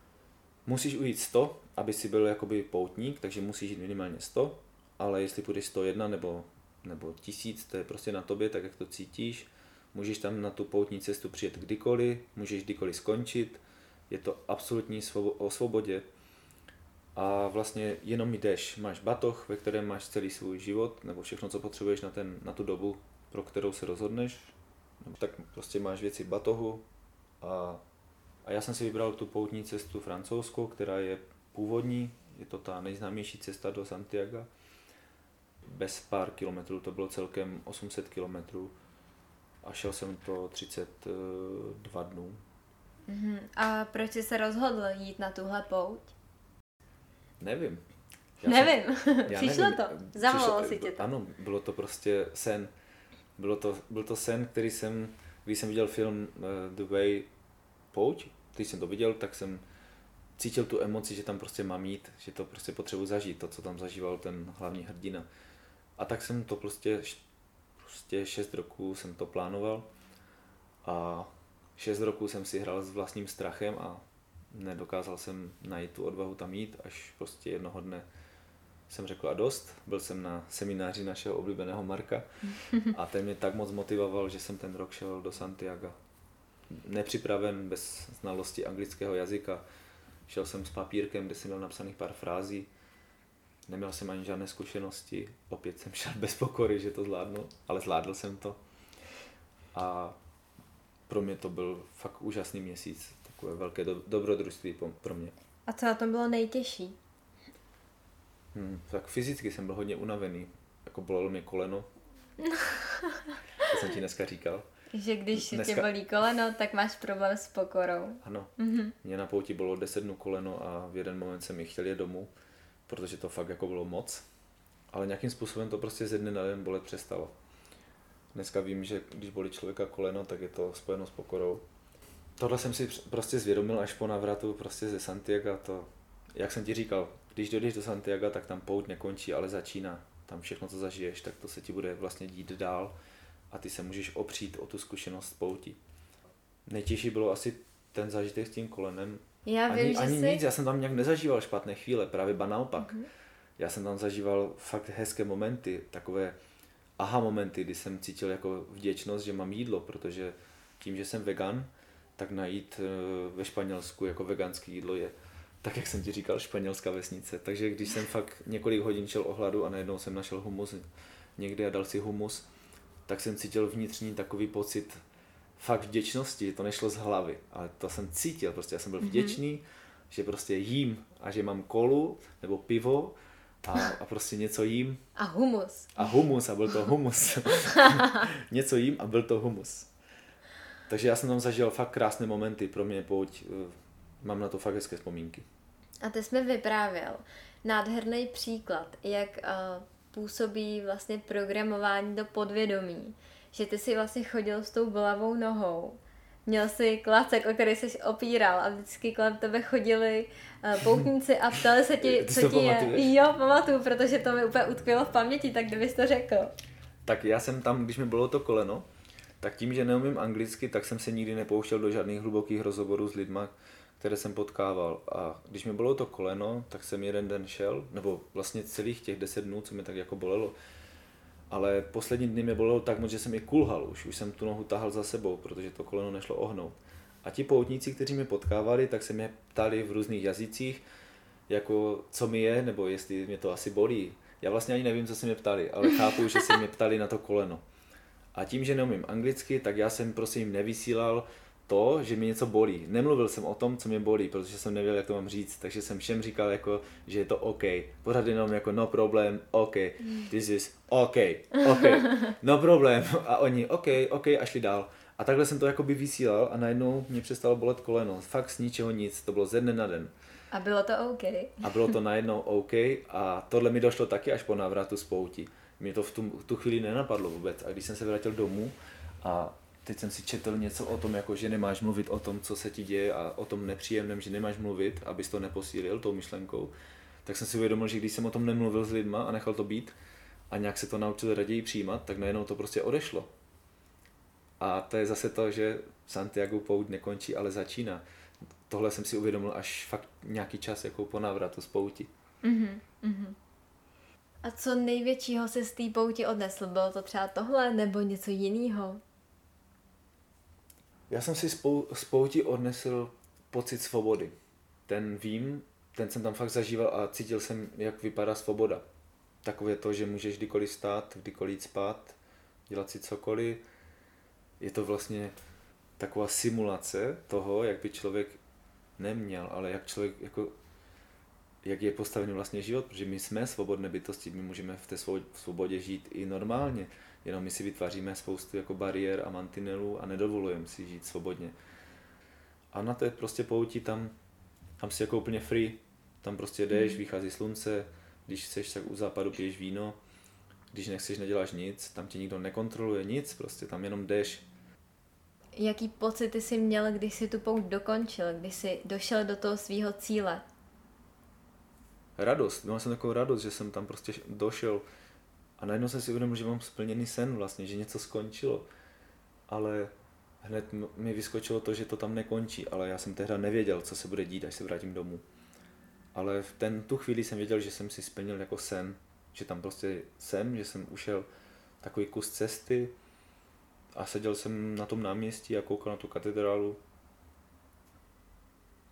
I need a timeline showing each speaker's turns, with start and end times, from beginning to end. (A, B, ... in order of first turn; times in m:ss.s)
0:00.6-0:16.1 A
0:17.1-0:26.8 A
0:27.4-0:27.8 A
0:28.4-0:34.5 A
0:35.6-0:38.7 A
0:39.6-0:42.4 A
0:43.1-0:46.1 B
0:47.4-0:47.8 A
0:48.4-0:52.7 A
0:48.4-0:51.0 B
0:53.4-0:57.3 A
0:57.9-0:59.6 A
1:00.4-1:05.3 A
1:06.0-1:07.2 A
1:07.8-1:09.9 A
1:10.8-1:18.0 A
1:18.9-1:22.2 A
1:22.6-1:22.9 B
1:22.8-1:26.0 A
1:26.7-1:29.6 A
1:30.3-1:32.7 A
1:33.7-1:38.6 A
1:39.7-1:40.1 A
1:41.1-1:45.3 A
1:45.7-1:47.0 B
1:48.5-1:51.9 A
1:52.4-1:53.7 B
1:53.6-1:54.6 A
1:54.9-1:58.9 B
1:55.3-1:55.9 A
1:58.2-1:58.5 A
1:59.0-2:02.3 A
2:02.9-2:04.2 A
2:04.9-2:07.3 A
2:08.3-2:11.6 A
2:12.4-2:22.9 A
2:23.5-2:25.8 A
2:26.6-2:33.0 A
2:29.4-2:30.4 B
2:32.8-2:33.1 B
2:33.6-2:36.3 A
2:37.0-2:50.8 A
2:51.4-2:52.5 A
2:53.1-2:54.9 A
2:55.6-3:05.0 A
2:59.0-2:59.4 B
3:05.2-3:06.0 B
3:06.0-3:09.9 A
3:07.6-3:08.2 B
3:10.9-3:15.4 A
3:16.0-3:36.5 B
3:30.8-3:31.1 A
3:31.9-3:33.1 A
3:37.0-3:38.8 A
3:39.4-3:50.6 A
3:51.5-4:00.8 A
4:01.5-4:07.6 A
4:08.3-4:30.1 A
4:21.6-4:22.3 B
4:30.5-4:31.9 B
4:31.6-4:46.7 A
4:47.2-4:49.9 A
4:50.5-4:53.3 A
4:54.6-4:58.0 A
4:58.7-5:02.1 A
5:02.4-5:03.4 B
5:04.4-5:09.0 B
5:11.1-5:14.3 A
5:14.9-5:18.8 A
5:19.4-5:22.2 A
5:22.7-5:23.6 A
5:24.6-5:25.3 A
5:26.0-5:28.4 A
5:29.0-5:30.5 A
5:31.6-5:41.5 A
5:42.7-5:44.1 A
5:44.8-5:50.0 A
5:46.7-5:47.0 B
5:50.7-5:54.4 A
5:55.6-6:00.4 B
6:02.2-6:04.8 A
6:05.6-6:08.7 A
6:09.5-6:15.2 A
6:16.1-6:21.3 A
6:21.8-6:22.9 A
6:23.9-6:26.8 A